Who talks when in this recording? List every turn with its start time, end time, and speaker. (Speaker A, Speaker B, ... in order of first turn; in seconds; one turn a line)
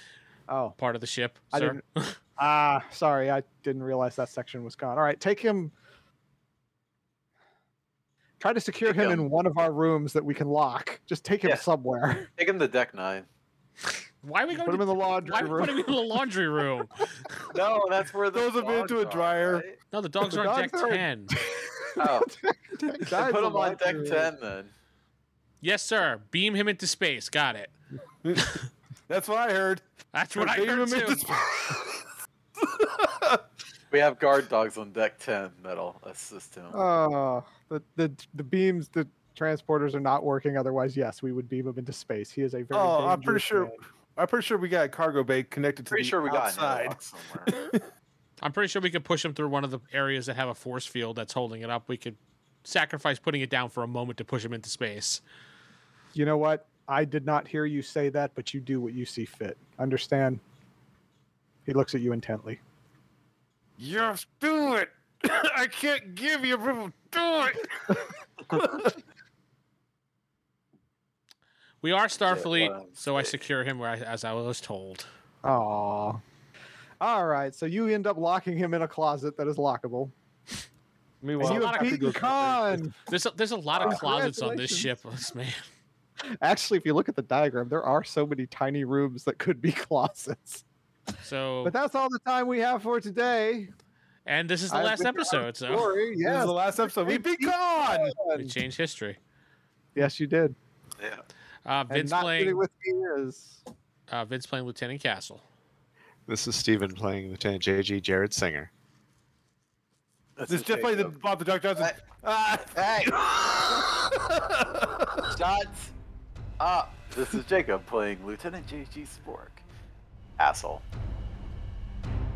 Speaker A: 0.5-0.8
Speaker B: 0.8-2.2
Speaker A: 1.5-1.8
Speaker A: 2.4-5.7
Speaker A: 8.4-12.3
Speaker C: 8.9-9.3
Speaker C: 12.4-13.3
Speaker B: 14.2-17.3
Speaker A: 14.5-15.9
Speaker C: 17.5-19.8
Speaker D: 18.3-19.6
Speaker B: 19.9-21.4
Speaker A: 20.2-21.1
Speaker A: 21.7-24.3
Speaker C: 22.0-22.3
Speaker C: 23.1-24.7
Speaker B: 25.6-27.7
Speaker D: 28.2-29.8
Speaker B: 30.1-31.3
Speaker D: 30.4-32.0
Speaker D: 32.6-33.4
Speaker C: 33.9-36.8
Speaker A: 36.7-43.8
Speaker D: 42.7-47.8
Speaker C: 45.9-47.5
Speaker B: 48.4-55.2
Speaker A: 56.1-60.4
Speaker A: 61.7-62.6
Speaker D: 63.8-69.0
Speaker B: 71.8-75.1
Speaker C: 72.3-73.3
Speaker A: 75.4-76.2
Speaker A: 77.0-80.1
Speaker D: 81.2-82.8
Speaker B: 81.4-82.3
Speaker A: 81.4-83.0
Speaker B: 83.1-85.6
Speaker A: 83.8-84.9
Speaker A: 86.4-90.6
Speaker B: 91.2-91.8
Speaker A: 91.6-93.7
Speaker B: 94.3-95.9
Speaker A: 94.7-98.6
Speaker D: 96.2-98.2
Speaker B: 98.3-99.2
Speaker A: 100.0-100.5
Speaker B: 101.7-102.6
Speaker A: 101.9-103.6
Speaker B: 104.1-105.4
Speaker E: 106.3-108.7
Speaker C: 110.4-111.2
Speaker D: 110.5-115.3
Speaker C: 112.7-113.2
Speaker C: 115.3-115.9
Speaker C: 116.6-119.6
Speaker C: 120.4-120.8